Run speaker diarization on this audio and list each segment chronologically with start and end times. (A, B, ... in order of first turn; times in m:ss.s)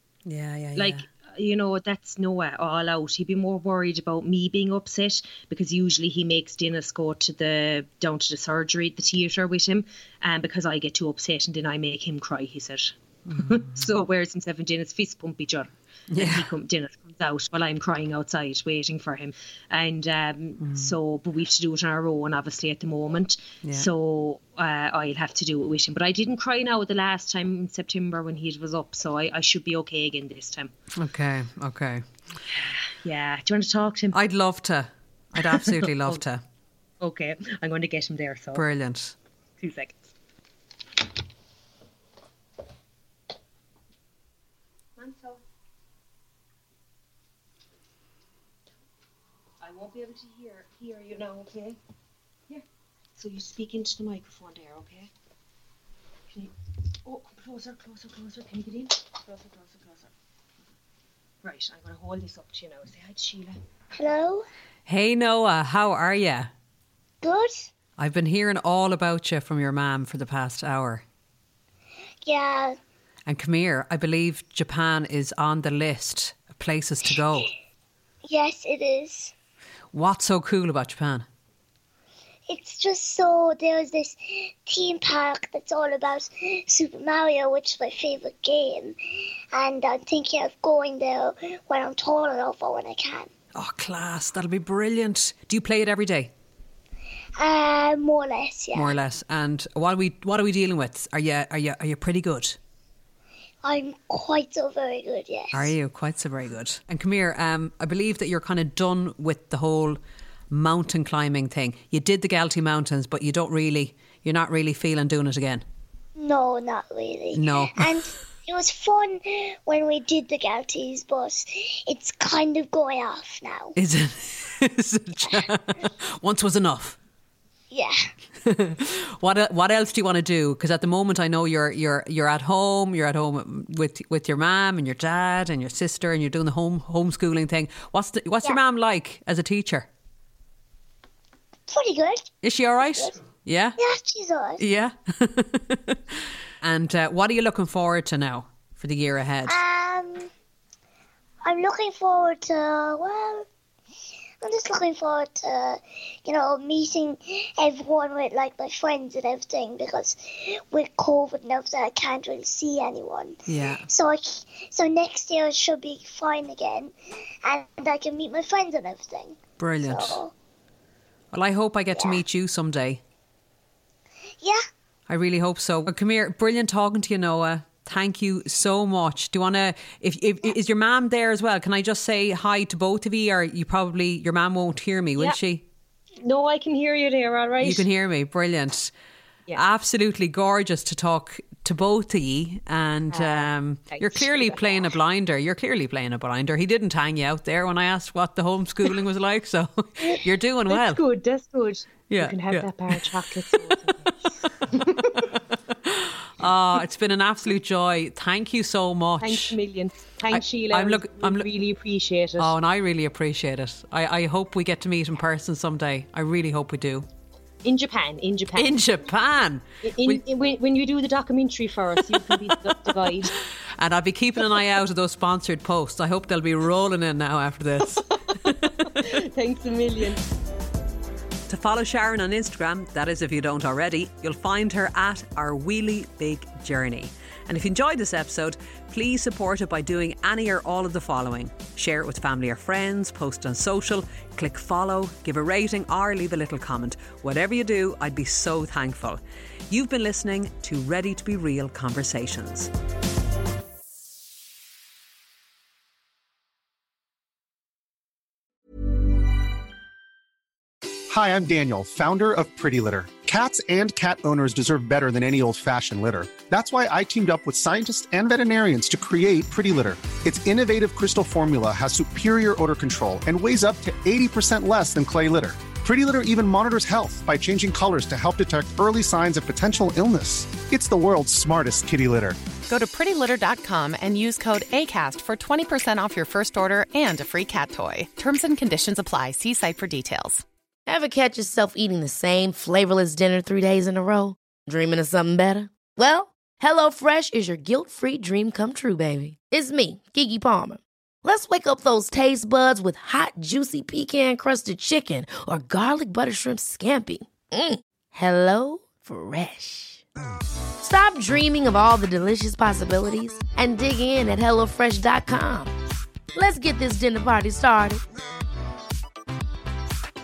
0:00.2-0:01.0 A
0:00.8-0:30.7 B
0:13.3-0:13.9 A
0:16.1-0:16.5 A
0:20.6-0:20.9 A
0:31.0-0:32.0 A
0:32.5-0:34.2 B
0:34.1-0:36.4 A
0:35.5-0:36.2 B
0:37.0-0:38.6 B
0:38.5-0:39.2 A
0:39.6-0:40.0 B
0:45.0-0:45.4 B
0:49.6-0:51.8 B
0:53.2-0:55.1 B
0:57.0-1:00.1 B
1:01.4-1:03.6 B
1:03.9-1:04.5 C
1:04.9-1:06.5 A
1:07.2-1:07.7 C
1:08.0-1:11.0 A
1:12.2-1:12.8 C
1:13.3-1:17.5 A
1:18.2-1:19.3 C
1:19.9-1:21.2 A
1:22.5-1:29.0 C
1:29.5-1:33.3 C
1:33.5-1:36.3 A
1:37.4-1:39.0 C
1:38.7-1:42.6 A
1:43.6-1:45.7 C
1:45.5-1:50.0 A
1:50.5-1:55.6 A
1:56.2-2:03.8 C
1:57.3-1:57.9 A
2:03.8-2:07.0 A
2:07.7-2:08.1 C
2:08.4-2:19.9 A
2:21.7-2:22.3 C
2:22.4-2:23.8 A
2:23.8-2:24.6 C
2:24.6-2:26.0 A
2:26.6-2:29.6 A
2:29.5-2:30.3 C
2:31.4-2:33.5 C
2:34.4-2:46.9 C
2:43.5-2:43.8 A
2:47.4-2:50.3 C
2:49.6-2:50.2 A
2:51.3-2:53.0 A
2:51.9-2:52.2 C
2:55.1-3:05.6 A
3:06.2-3:07.8 B
3:07.6-3:08.9 A
3:09.5-3:21.0 A
3:13.1-3:14.9 B
3:20.7-3:25.3 B
3:22.1-3:23.5 A
3:25.1-3:29.5 A
3:29.2-3:32.5 B
3:30.3-3:31.5 A
3:32.4-3:37.0 A
3:37.6-3:38.8 B
3:38.5-3:40.2 A
3:39.8-3:43.3 B
3:43.8-3:49.1 A
3:48.8-3:50.2 B
3:51.5-4:12.7 A
4:21.1-4:42.4 D
4:42.7-4:50.4 E
4:50.9-5:10.0 F
5:10.8-5:15.7 F
5:16.3-5:18.0 F